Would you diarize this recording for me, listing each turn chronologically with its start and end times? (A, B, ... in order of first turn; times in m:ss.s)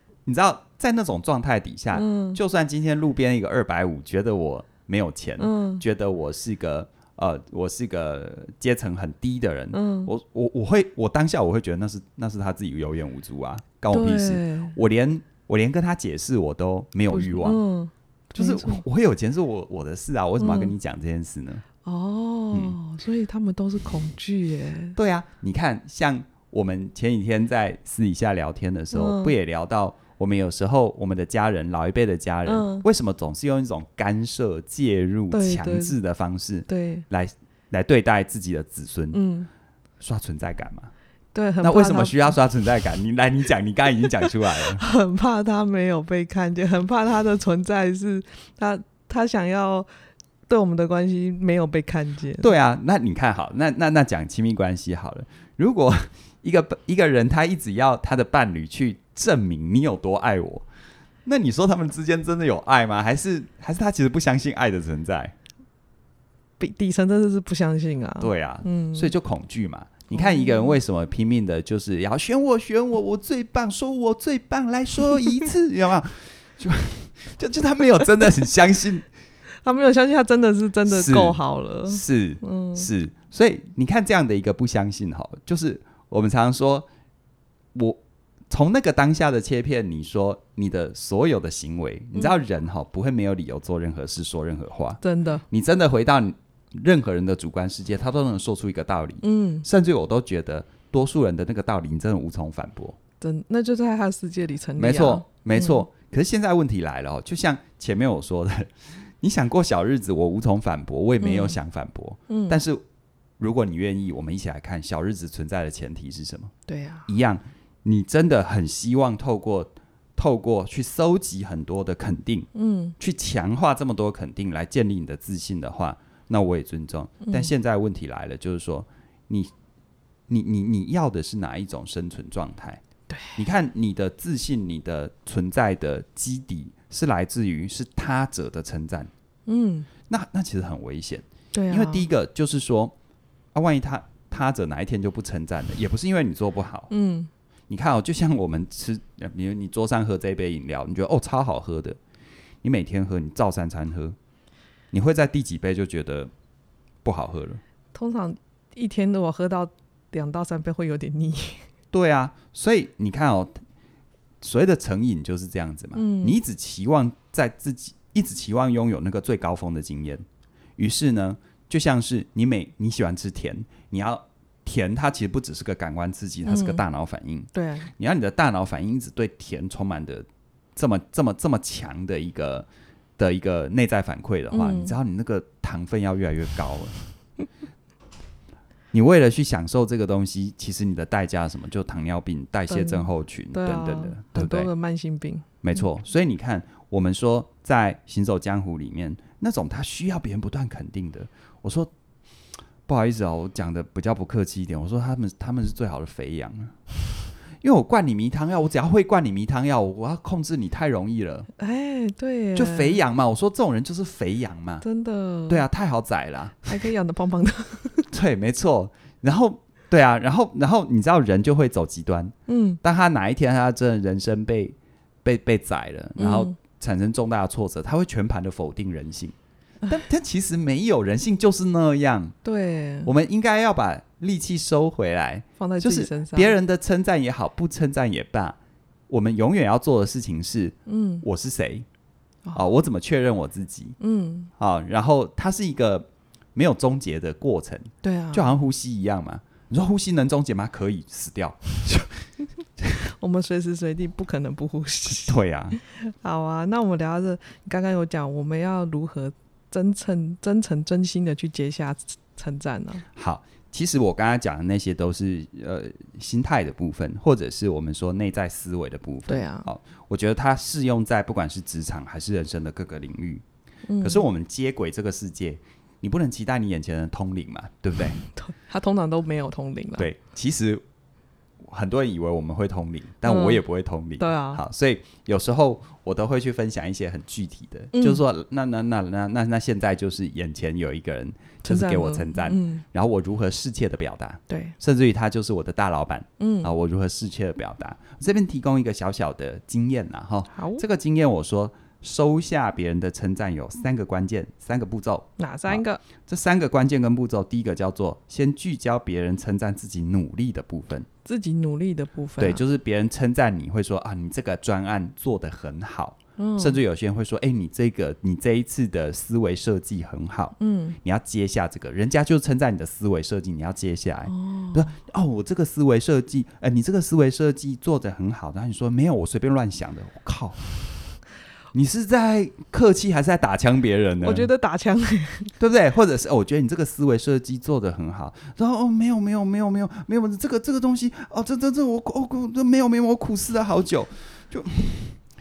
0:00.2-0:17.6 A
0:01.9-0:02.4 B
0:05.4-0:05.8 B
0:09.7-0:10.1 B
0:13.9-0:14.8 B
0:17.1-0:18.8 B
0:18.4-0:21.6 A
0:20.4-0:20.7 B
0:21.8-0:25.0 B
0:22.5-0:22.8 A
0:25.0-0:39.2 A
0:28.9-0:29.3 B
0:32.4-0:32.8 B
0:35.3-0:35.9 B
0:36.7-0:37.0 B
0:39.1-0:39.5 B
0:40.0-0:40.9 A
0:41.3-0:42.4 B
0:41.6-0:44.8 A
0:44.7-0:49.9 B
0:50.5-0:52.5 B
0:52.4-1:00.6 A
1:01.2-1:05.3 A
1:06.6-1:09.1 B
1:08.2-1:19.1 A
1:10.1-1:10.8 B
1:19.6-1:22.9 B
1:20.8-1:26.9 A
1:27.7-1:43.0 A
1:35.0-1:35.4 B
1:39.2-1:39.6 B
1:43.2-1:45.8 B
1:44.8-1:52.8 A
1:51.2-1:51.6 B
1:52.3-1:52.6 B
1:53.4-1:56.5 A
1:56.7-1:57.1 B
1:57.1-2:09.5 A
2:02.5-2:03.0 B
2:07.2-2:07.5 B
2:10.3-2:12.8 A
2:13.1-2:13.4 B
2:13.4-2:19.1 A
2:19.4-2:19.9 B
2:20.1-2:22.9 A
2:21.5-2:22.1 B
2:23.5-2:26.9 A
2:26.9-2:27.3 B
2:27.7-2:32.0 A
2:32.6-2:34.2 A
2:34.9-2:36.3 A
2:37.0-2:37.6 A
2:37.9-2:41.7 B
2:41.9-2:43.6 A
2:44.4-2:50.2 A
2:45.9-2:46.4 B
2:50.8-3:02.7 A
2:56.4-2:56.8 B
2:57.5-2:57.9 B
3:03.2-3:07.0 A
3:04.5-3:05.0 B
3:08.9-3:14.7 A
3:12.7-3:15.8 B
3:15.6-3:21.9 A
3:22.9-3:26.8 A
3:27.6-3:31.5 A
3:31.6-3:33.0 B
3:32.5-3:34.8 A
3:34.8-3:35.6 B
3:35.5-3:36.8 A
3:36.6-3:38.1 B
3:38.1-3:49.3 A
3:42.5-3:42.8 B
3:46.2-3:46.5 B
3:49.8-3:52.3 A
3:52.4-3:53.1 B
3:53.0-3:58.6 A
3:55.6-3:56.6 B
3:59.1-4:01.8 A
4:00.8-4:01.2 B
4:02.5-4:04.0 A
4:04.0-4:04.5 B
4:04.6-4:12.3 A
4:08.0-4:08.5 B
4:13.2-4:23.0 B
4:15.1-4:15.8 A
4:23.1-4:33.4 A
4:29.3-4:29.7 B
4:33.9-4:34.2 B
4:34.0-4:38.2 A
4:38.2-4:40.1 B
4:40.0-4:40.8 A
4:41.7-5:11.1 A
4:43.2-4:43.6 B
4:44.2-4:44.6 B
4:47.9-4:48.2 B
4:51.6-4:52.8 B
4:54.5-4:54.8 B
4:56.4-4:56.7 B
5:00.5-5:00.8 B
5:05.4-5:06.0 B
5:11.2-5:12.6 B
5:12.4-5:30.8 A
5:16.4-5:16.8 B
5:20.6-5:21.0 B
5:24.3-5:24.9 B
5:31.7-5:34.5 A
5:34.2-5:35.5 B
5:35.6-5:45.2 A